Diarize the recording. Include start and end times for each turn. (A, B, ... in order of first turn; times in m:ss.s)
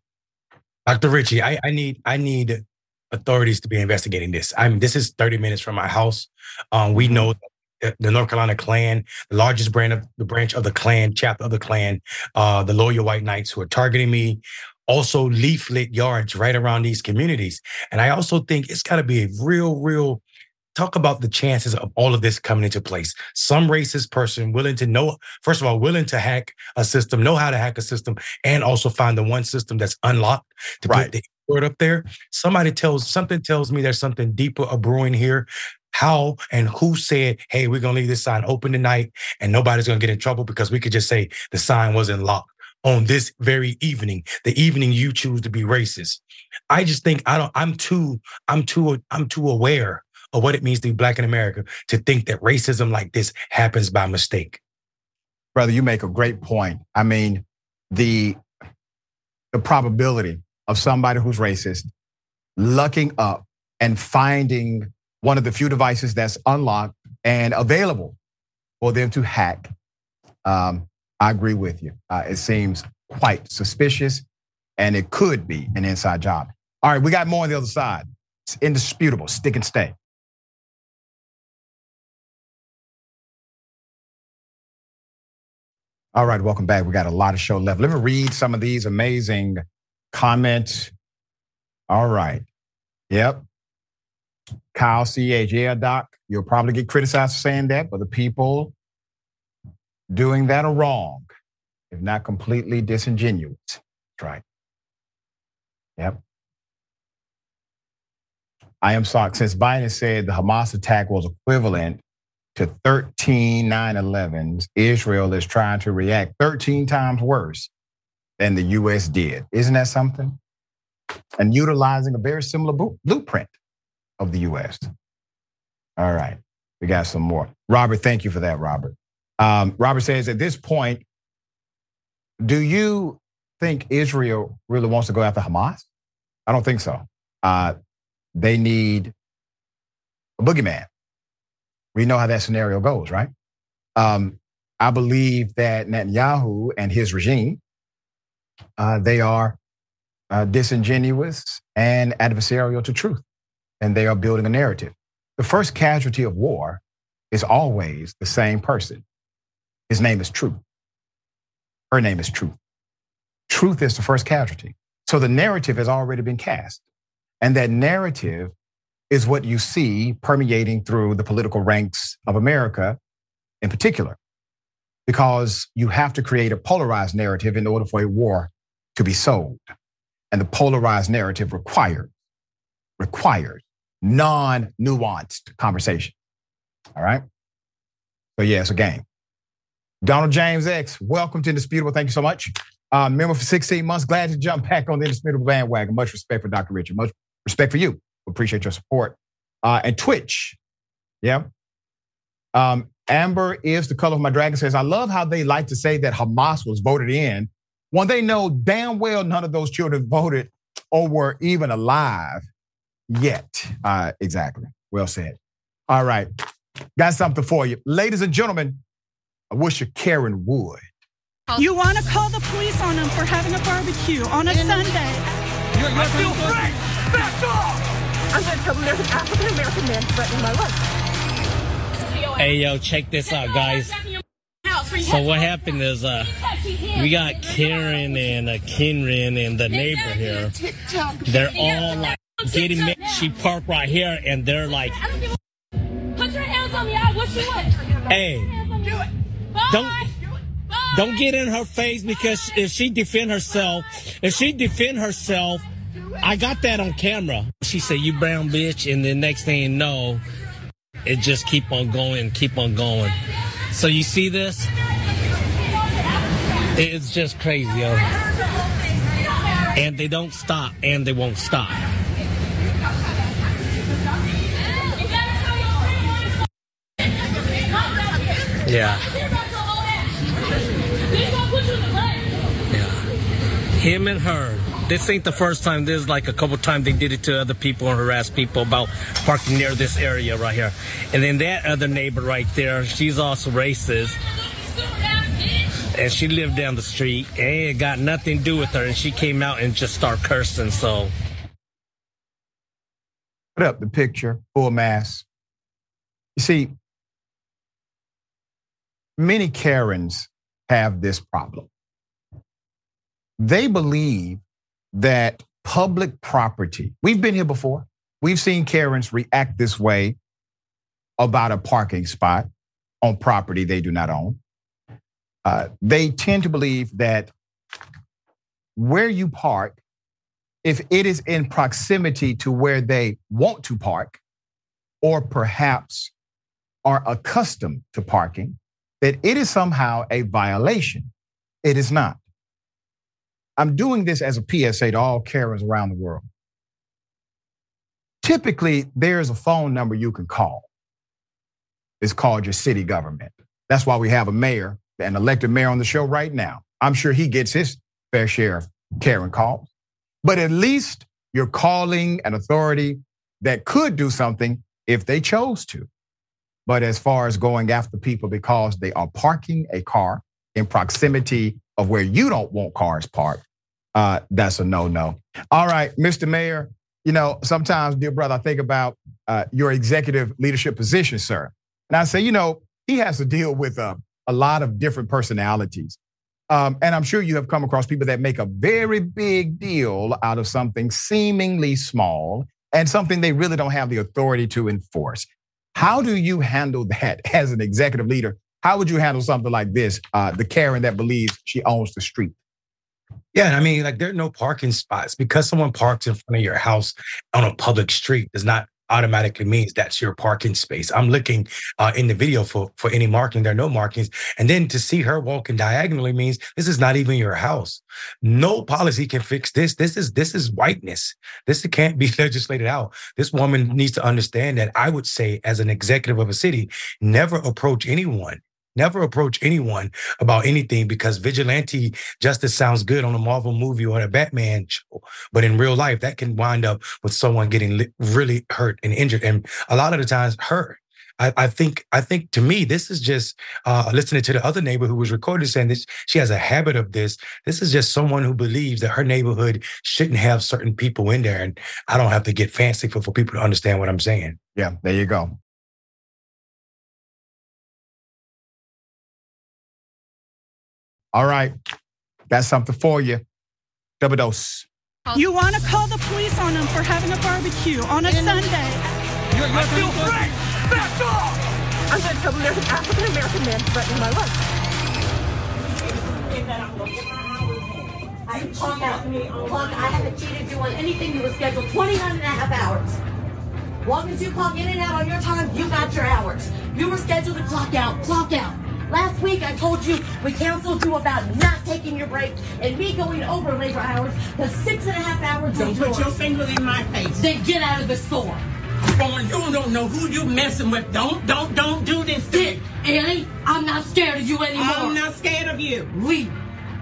0:00.9-0:20.2 A
0:07.0-0:07.3 B
0:20.8-0:54.6 A
0:55.6-0:58.4 B
0:59.5-1:01.9 B
1:02.6-1:08.2 B
1:08.8-1:09.7 B
1:10.4-1:14.2 B
1:14.8-1:20.0 B
1:26.2-1:30.9 B
1:31.9-1:32.5 B
1:33.1-1:33.4 B
1:34.7-1:38.7 B
1:40.1-1:41.3 B
1:41.9-1:44.4 B
1:48.8-1:52.0 B
1:52.6-1:57.7 B
1:58.4-2:00.4 B
2:01.4-2:03.5 B
2:04.2-2:04.9 B
2:06.0-2:11.0 B
2:12.4-2:15.9 B
2:16.5-2:17.8 B
2:18.4-2:19.1 B
2:20.4-2:20.9 B
2:22.0-2:23.3 B
2:24.0-2:27.6 B
2:28.8-2:29.6 B
2:30.3-2:33.2 B
2:33.8-2:36.8 B
2:37.3-2:39.0 B
2:39.9-2:40.6 B
2:41.9-2:42.5 B
2:43.5-2:46.8 B
2:47.4-2:48.5 B
2:49.1-2:53.0 B
2:53.6-2:54.2 B
2:55.1-2:59.7 B
3:00.3-3:02.1 B
3:03.0-3:06.1 B
3:07.0-3:07.2 B
3:08.4-3:09.0 B
3:10.0-3:20.6 B
3:21.2-3:21.5 B
3:22.6-3:32.4 B
3:33.1-3:35.4 B
3:35.9-3:36.3 B
3:37.0-3:38.8 B
3:39.5-3:40.9 B
3:41.6-3:45.2 C
3:44.4-3:45.2 D
3:45.8-3:50.8 D
3:52.4-3:54.0 E
3:55.0-3:56.3 E
3:56.9-4:00.5 E
4:00.6-4:01.5 D
4:01.3-4:05.0 E
4:08.1-4:08.6 E
4:09.7-4:10.0 E
4:10.9-4:15.6 E
4:16.2-4:20.2 E
4:21.1-4:23.2 E
4:23.7-4:24.7 E
4:26.8-4:28.1 E
4:29.8-4:31.8 E
4:38.6-4:39.2 E
4:42.7-4:43.0 E
4:43.8-4:54.2 E
4:56.0-5:01.1 E
5:03.6-5:05.2 B
5:06.4-5:06.7 B
5:09.2-5:11.7 B
5:13.4-5:14.4 B
5:14.9-5:20.2 B
5:21.2-5:22.5 B
5:23.0-5:24.4 B
5:25.4-5:27.3 B
5:28.8-5:29.8 B
5:30.6-5:34.2 B
5:35.0-5:36.1 B
5:36.8-5:41.1 B
5:41.6-5:42.2 B
5:43.6-5:46.3 B
5:48.2-5:50.7 B
5:52.0-5:59.7 B
6:00.2-6:05.9 B
6:06.7-6:13.4 B
6:14.0-6:26.0 B
6:26.5-6:42.4 B
6:43.3-7:34.4 A
7:34.6-7:35.4 B
7:41.1-7:41.5 B
7:42.3-7:43.2 B
7:44.0-7:44.7 B
7:45.1-7:48.8 C
7:48.0-7:48.6 D
7:49.4-7:54.4 D
7:49.6-7:50.1 C
7:55.7-8:00.1 F
7:58.3-8:03.0 G
8:03.8-8:16.1 G
8:15.5-8:17.2 F
8:17.2-8:18.4 G
8:18.9-8:22.7 F
8:22.3-8:24.9 G
8:24.5-8:25.9 F
8:26.0-8:26.3 G